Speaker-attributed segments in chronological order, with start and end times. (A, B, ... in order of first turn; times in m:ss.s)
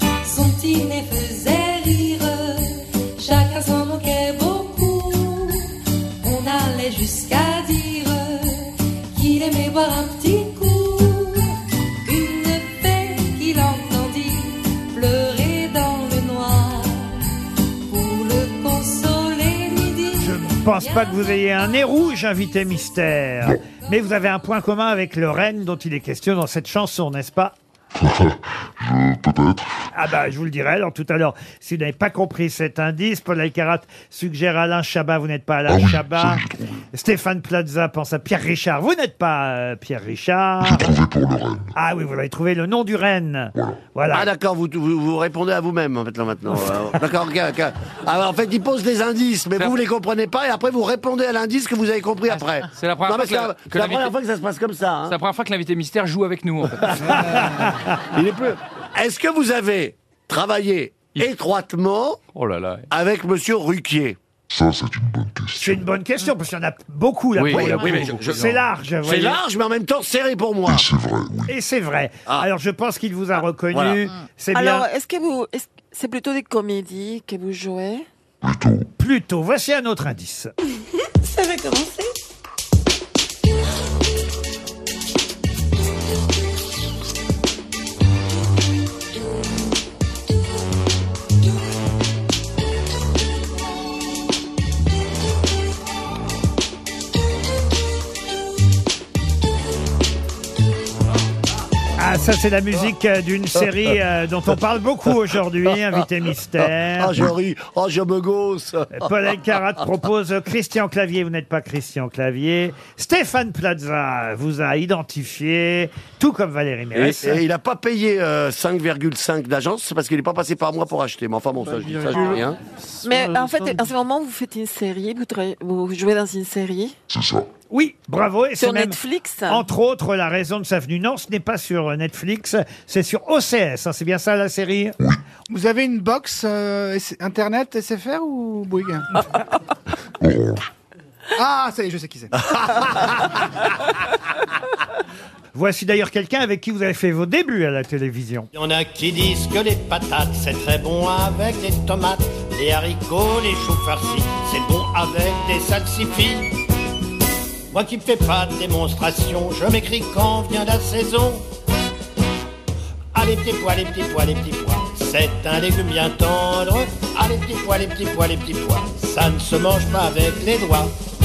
0:00.2-0:17.3 A
0:17.9-0:21.8 A
0:20.2-0:27.6 B
0:28.0-0:29.7 C
0:29.9-0:40.9 B
0:35.7-0:36.8 C
0:40.6-0:41.7 C
0:41.8-0:44.3 B
0:44.1-0:55.2 D
0:52.3-0:54.1 E
0:55.1-0:57.2 E
0:57.2-0:58.0 B
0:58.1-1:02.2 D
1:02.4-1:02.9 E
1:02.9-1:04.2 D
1:04.5-1:05.8 C
1:05.6-1:09.4 B
1:07.4-1:08.7 E
1:07.5-1:08.5 D
1:09.0-1:10.9 D
1:10.7-1:11.5 C
1:11.5-1:14.9 B
1:13.7-1:14.0 D
1:14.5-1:18.1 F
1:18.4-1:18.9 C
1:19.0-1:20.5 B
1:42.0-1:47.2 B
1:46.9-1:49.1 D
1:48.9-1:57.4 B
1:56.9-2:02.6 D
2:03.0-2:07.0 F
2:07.1-2:07.5 C
2:07.7-2:15.0 B
2:08.6-2:09.7 F
2:15.5-2:19.1 G
2:20.2-2:20.6 C
2:21.4-2:23.2 G
2:25.5-2:28.5 B
2:28.6-2:36.6 H
2:37.7-2:41.4 H
2:43.1-2:50.9 H